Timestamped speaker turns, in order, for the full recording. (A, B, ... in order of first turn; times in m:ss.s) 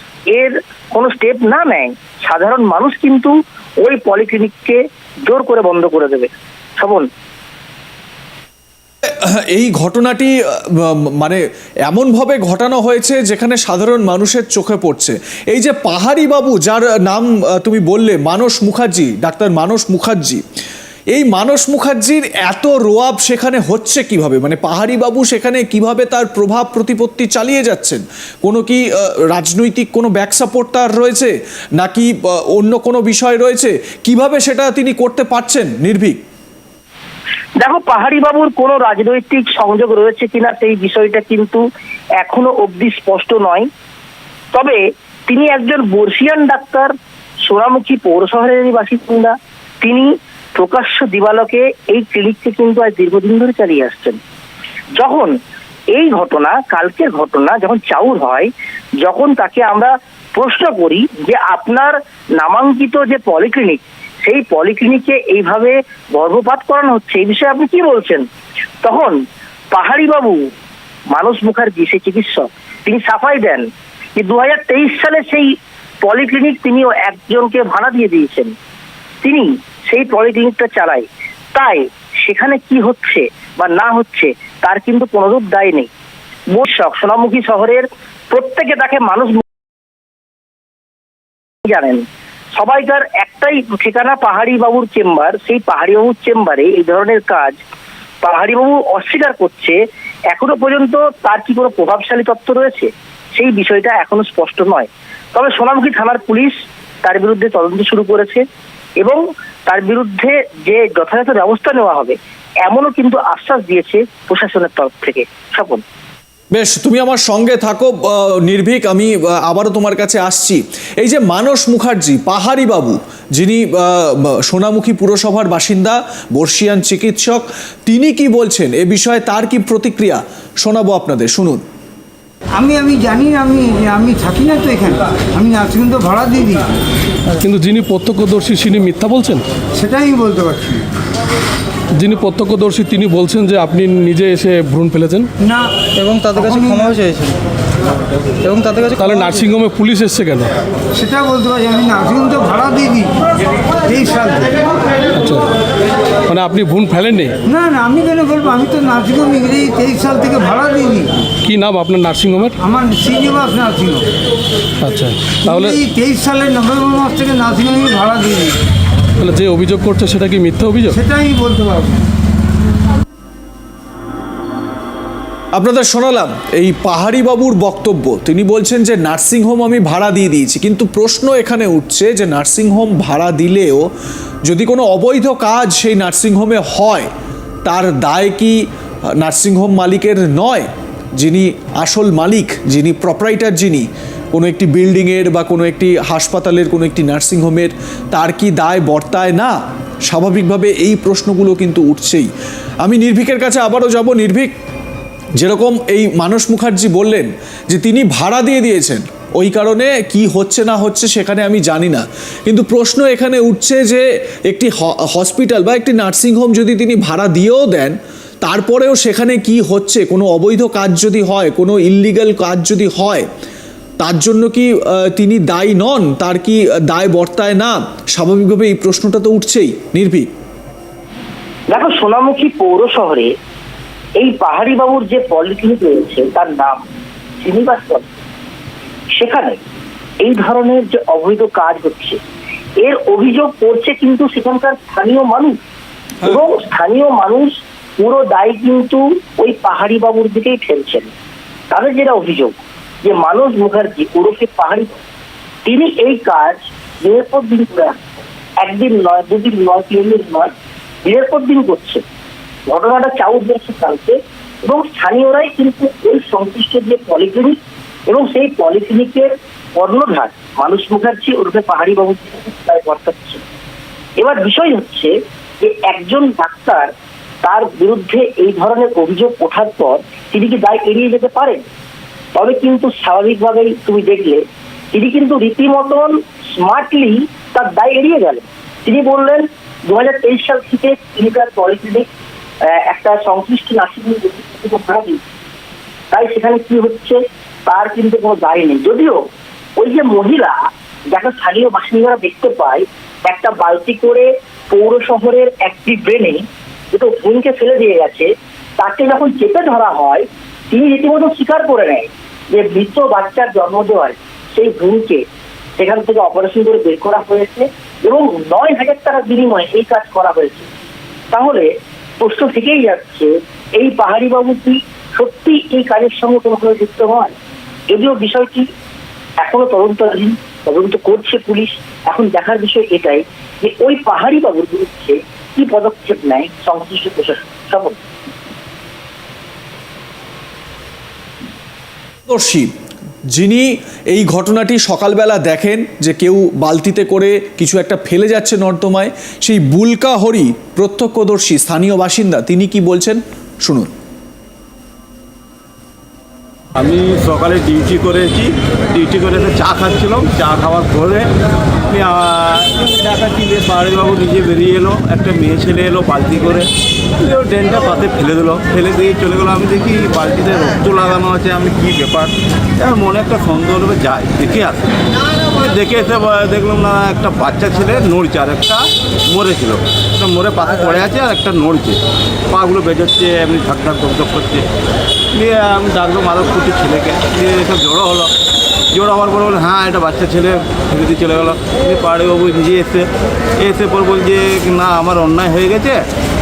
0:00.3-0:07.1 A
0:09.2-0:20.4 B
0:21.1-0:36.2 B
0:37.6-0:41.6 A
0:42.2-0:43.7 A
0:44.5-0:46.9 A
0:47.5-0:54.2 A
0:55.0-0:55.3 A
0:55.9-0:58.5 A
0:59.0-1:08.2 A
1:08.8-1:09.2 A
1:09.7-1:10.4 A
1:11.1-1:13.6 A
1:14.2-1:15.5 A
1:16.0-1:18.5 A
1:19.2-1:25.9 A
1:26.5-1:29.4 A
1:31.6-1:32.0 A
1:32.6-1:37.6 A
1:38.2-1:39.8 A
1:40.3-1:46.5 A
1:47.0-1:48.4 A
1:49.0-1:55.8 A
1:56.5-2:11.6 B
2:12.5-2:16.8 C
2:17.4-2:19.5 D
2:19.7-2:20.9 C
2:22.0-2:25.3 D
2:25.4-2:26.9 C
2:26.0-2:27.4 E
2:28.4-2:28.9 E
2:28.9-2:30.5 D
2:30.9-2:34.8 C
2:35.2-2:35.5 D
2:36.3-2:37.4 D
2:37.5-2:41.3 C
2:41.4-2:42.6 D
2:42.6-2:44.1 C
2:44.8-2:45.8 D
2:45.4-2:48.6 C
2:49.2-2:51.0 D
2:50.9-2:52.1 C
2:55.5-3:03.9 B
3:04.4-3:07.1 B
3:07.6-3:08.6 B
3:09.2-3:22.3 B
3:22.8-3:24.5 B
3:25.4-3:43.3 B
3:44.0-3:50.3 B
3:51.7-3:53.3 A
3:54.2-3:56.8 A
3:57.4-3:58.1 A
3:59.1-3:59.6 A
4:00.2-4:02.2 A
4:02.8-4:05.6 A
4:06.2-4:11.1 A
4:11.7-4:15.0 A
4:15.6-4:18.0 A
4:18.6-4:20.5 A
4:21.0-4:22.0 A
4:22.7-4:27.6 A
4:28.1-4:33.4 A
4:34.2-4:36.9 A
4:37.4-4:41.6 A
4:42.4-4:52.1 A
4:52.7-4:55.2 A
4:56.1-4:59.2 A
4:59.8-5:00.6 A
5:01.1-5:08.3 A
5:08.8-5:15.2 A
5:15.8-5:20.7 A
5:21.3-5:21.7 A
5:22.2-5:27.4 A
5:27.9-5:28.7 A
5:29.4-5:38.0 A
5:42.3-5:42.7 B
5:43.3-5:53.9 B
5:56.8-6:01.3 F
6:01.9-6:15.0 F
6:15.5-6:24.7 F
6:25.3-6:28.3 F
6:28.9-6:36.1 F